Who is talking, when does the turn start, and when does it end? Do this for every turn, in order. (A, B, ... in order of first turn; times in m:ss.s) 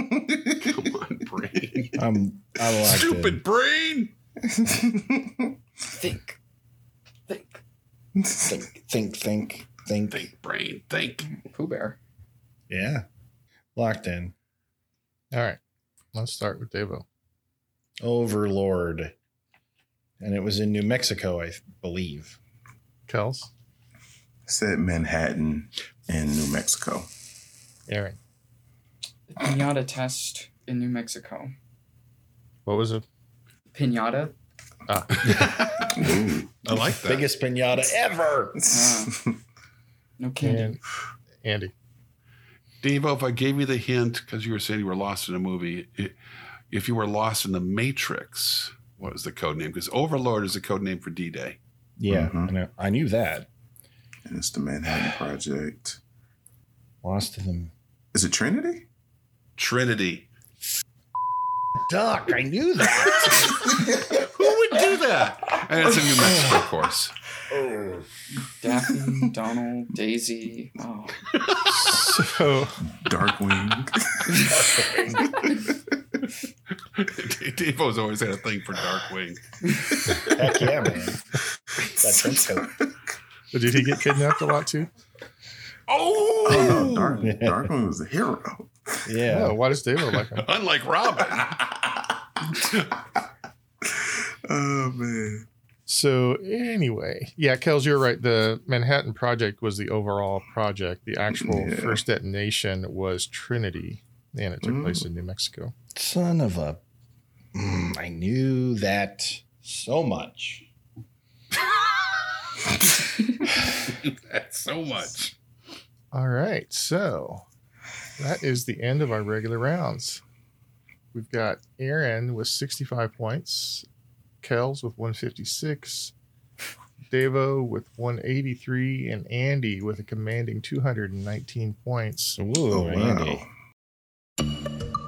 0:00.1-0:00.5 A
0:00.6-0:02.0 B
0:02.0-0:03.4 C
0:02.7-0:04.1 B
0:04.5-0:05.4 A
0:05.9-0:06.4 D
0:07.3-0:07.6 D
0:08.2-0:08.5 A
0:08.4-0:10.3 C
0:10.1-0:11.3 B
0:11.2-0:12.0 D
0:12.7-0:13.0 C
0:13.8-0:14.3 C
0:15.3-0:15.6 E
0:16.1-0:17.0 E
0:18.0-0:19.1 C
0:20.2-0:22.4 C
0:23.1-0:23.5 E
0:24.4-0:27.1 A
0:27.9-0:28.2 E
0:29.3-0:31.5 D
0:32.6-0:33.0 E
0:33.7-0:34.3 D
0:34.9-0:35.3 E
0:35.3-0:35.5 C
0:35.8-0:36.5 A
0:36.6-0:38.6 C
0:36.7-0:37.2 B
0:38.6-0:39.3 A
0:38.7-0:39.1 D
0:40.2-0:40.8 D
0:40.4-0:40.8 E
0:41.4-0:41.7 E
0:42.8-0:46.1 B
0:46.7-0:51.6 B
0:52.0-0:53.5 C
0:52.1-0:52.5 A
0:54.2-0:56.0 A
0:57.0-0:57.7 C
0:58.1-0:58.8 A
0:59.6-1:00.3 B
1:01.9-1:03.7 C
1:04.1-1:07.1 B
1:06.2-1:06.5 C
1:08.4-1:11.2 D
1:11.7-1:12.8 E
1:12.9-1:14.5 A
1:16.9-1:19.4 B
1:20.3-1:21.2 C
1:22.0-1:22.7 C
1:23.5-1:24.9 E
1:25.9-1:27.3 B
1:26.5-1:27.7 C
1:26.5-1:29.0 A
1:29.0-1:29.6 C
1:29.3-1:30.4 E
1:30.2-1:31.6 B
1:33.9-1:35.5 A
1:35.9-1:45.7 E
1:41.3-1:42.0 A
1:44.6-1:45.0 A
1:45.9-1:46.8 C
1:47.5-1:50.7 C
1:53.9-1:55.3 B
1:56.1-1:57.4 E
1:58.2-2:00.2 E
2:01.1-2:03.8 E
2:04.4-2:06.1 E
2:07.1-2:12.4 E
2:12.4-2:13.4 C
2:12.7-2:13.5 A